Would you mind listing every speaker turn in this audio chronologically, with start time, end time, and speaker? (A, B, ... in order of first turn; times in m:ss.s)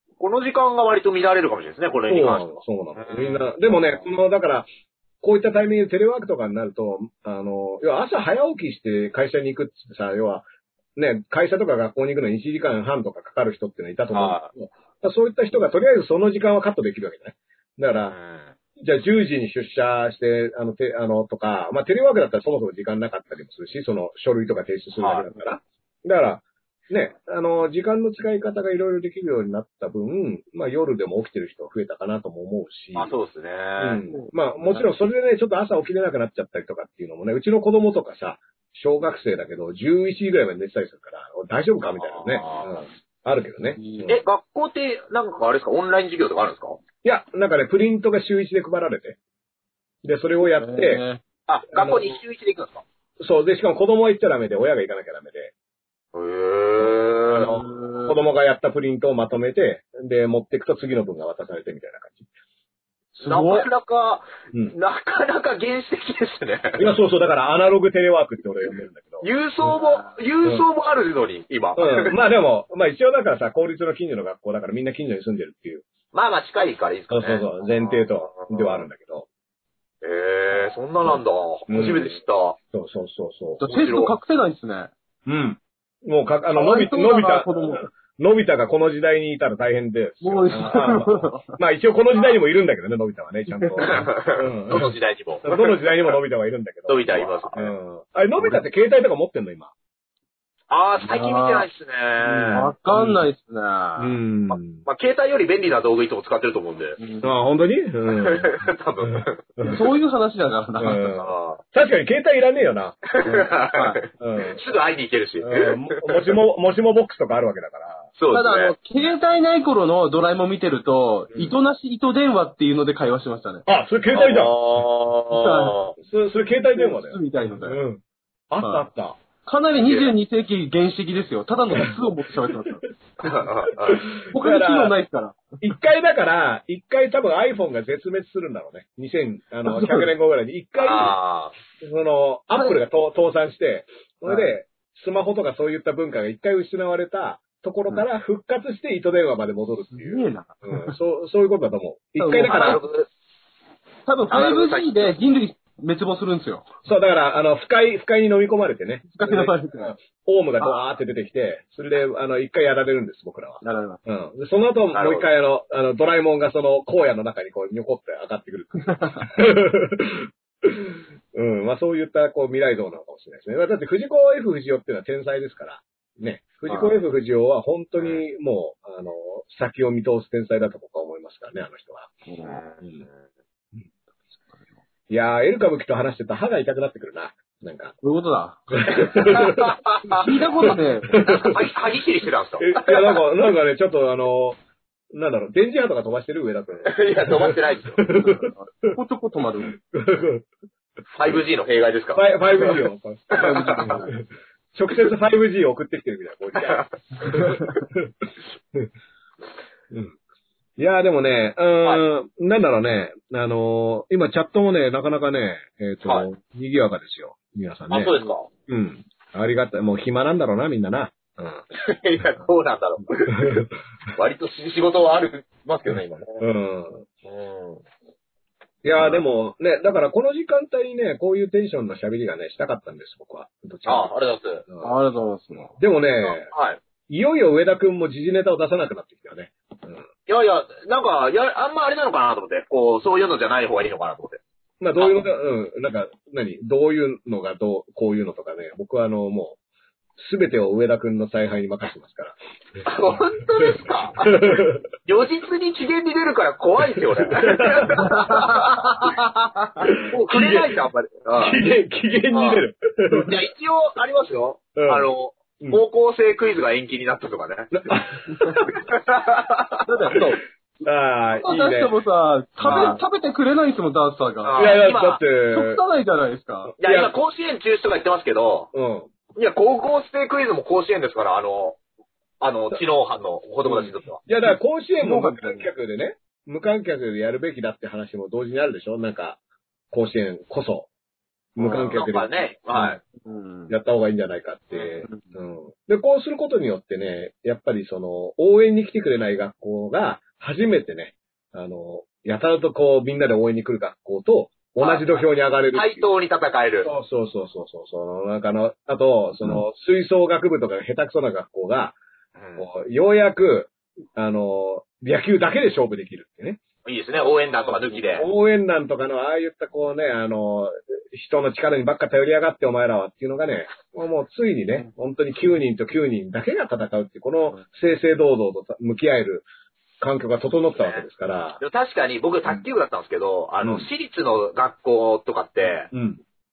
0:00.2-0:03.5 A
0:02.1-0:04.7 B
0:05.2-0:10.4 B
0:11.0-0:18.2 B
0:14.1-0:14.5 A
0:18.1-0:18.6 A
0:18.8-0:33.1 B
0:25.0-0:25.3 A
0:33.0-0:34.0 A
0:33.8-0:44.2 B
0:34.1-0:34.9 C
0:41.9-0:42.8 A
0:43.8-0:44.1 C
0:44.1-0:46.8 A
0:47.0-0:49.2 B
0:50.0-0:51.0 B
0:50.5-0:51.2 C
0:51.5-0:52.8 A
0:51.7-0:52.1 B
0:53.2-0:55.5 B
0:56.1-0:57.7 A
0:56.8-1:02.3 B
0:57.3-0:58.2 C
1:03.2-1:03.7 C
1:03.2-1:06.9 A
1:06.8-1:09.7 B
1:09.2-1:12.1 A
1:11.8-1:15.8 B
1:16.1-1:18.9 A
1:17.1-1:19.3 B
1:20.0-1:22.6 A
1:21.0-1:22.2 B
1:22.7-1:23.6 B
1:23.6-1:24.9 C
1:23.6-1:24.2 A
1:25.3-1:39.7 B
1:26.5-1:27.9 C
1:30.2-1:31.6 C
1:33.5-1:34.1 C
1:33.8-1:36.1 A
1:36.9-1:37.7 A
1:40.7-1:42.7 A
1:41.0-1:41.7 C
1:42.2-1:44.2 C
1:42.5-1:43.2 B
1:44.0-1:44.8 B
1:44.5-1:47.0 A
1:47.0-1:47.3 C
1:47.2-1:49.8 B
1:48.1-1:49.4 A
1:49.6-1:51.1 C
1:50.8-1:53.1 B
1:51.2-1:51.6 A
1:53.1-1:56.4 A
1:53.2-1:54.0 C
1:54.2-1:54.6 B
1:55.4-1:58.1 B
1:58.2-1:58.8 A
1:58.3-2:03.6 C
2:03.7-2:04.8 B
2:04.1-2:06.0 A
2:05.3-2:05.8 C
2:06.0-2:09.2 B
2:06.8-2:07.8 C
2:08.6-2:08.9 C
2:09.4-2:12.8 C
2:09.8-2:10.1 A
2:13.2-2:14.0 A
2:13.8-2:15.0 B
2:14.3-2:15.5 C
2:15.6-2:21.2 B
2:19.7-2:20.1 C
2:20.8-2:21.6 A
2:21.8-2:32.8 B
2:22.5-2:22.8 C
2:24.3-2:24.6 C
2:29.9-2:31.0 C
2:32.2-2:32.8 C
2:32.4-2:33.1 A
2:34.1-2:36.7 C
2:34.3-2:35.1 A
2:36.8-3:02.1 B
2:39.1-2:39.9 C
2:43.6-2:44.0 C
2:44.9-2:45.3 A
2:48.8-2:49.3 C
2:56.7-2:57.0 C
3:02.3-3:02.6 C
3:02.4-3:03.2 A
3:05.1-3:08.0 B
3:08.0-3:09.4 C
3:08.7-3:09.8 B
3:08.9-3:10.4 A
3:10.0-3:11.2 C
3:10.7-3:11.7 B
3:11.2-3:13.2 A
3:12.6-3:14.6 B
3:15.1-3:19.0 B
3:16.9-3:18.1 A
3:18.2-3:19.8 C
3:19.8-3:20.4 B
3:21.1-3:22.8 A
3:22.1-3:28.9 B
3:23.3-3:24.0 A
3:23.4-3:24.2 C
3:26.6-3:27.8 A
3:27.4-3:27.6 C
3:29.9-3:30.2 B
3:30.8-3:38.2 B
3:37.9-3:38.5 A
3:38.7-3:41.6 B
3:41.7-3:46.4 A
3:43.3-3:43.7 B
3:46.4-3:47.1 B
3:47.2-3:47.8 A
3:48.8-3:54.1 B
3:53.8-3:54.7 A
3:54.7-3:55.0 B
3:54.8-3:55.8 C
3:55.8-3:56.5 B
3:56.2-3:56.8 A
3:57.1-4:00.1 B
4:00.3-4:04.4 A
4:04.8-4:09.6 B
4:05.0-4:05.3 A
4:10.2-4:12.4 B
4:12.8-4:18.8 A
4:13.6-4:14.8 B
4:17.3-4:18.5 B
4:18.0-4:19.9 C
4:19.8-4:20.8 B
4:20.1-4:21.6 A
4:21.4-4:23.4 B
4:22.3-4:22.6 A
4:23.2-4:27.9 A
4:24.7-4:25.1 B
4:27.9-4:28.8 B
4:28.7-4:30.2 A
4:29.9-4:30.4 C
4:30.8-4:32.0 B
4:31.4-4:34.8 C
4:32.6-4:33.0 B
4:34.4-4:35.2 A
4:34.6-4:35.8 B
4:35.5-4:36.7 C
4:36.7-4:37.1 B
4:36.8-4:38.7 A
4:38.7-4:39.1 B
4:39.4-4:41.8 A
4:42.4-4:44.2 A
4:43.6-4:49.4 B
4:44.5-4:45.7 C
4:49.9-4:50.9 B
4:51.6-4:53.0 B
4:51.6-4:52.0 C
4:51.9-4:53.0 A
4:53.1-4:53.7 C
4:53.7-5:06.1 B
4:54.7-4:55.0 A
5:04.8-5:06.9 A
5:06.8-5:12.0 B
5:12.4-5:12.7 A
5:12.6-5:16.6 B
5:16.8-5:18.3 A
5:17.2-5:29.5 B
5:30.0-5:31.6 B
5:30.8-5:31.0 A
5:31.6-5:35.9 A
5:33.6-5:33.9 B
5:35.9-5:36.2 B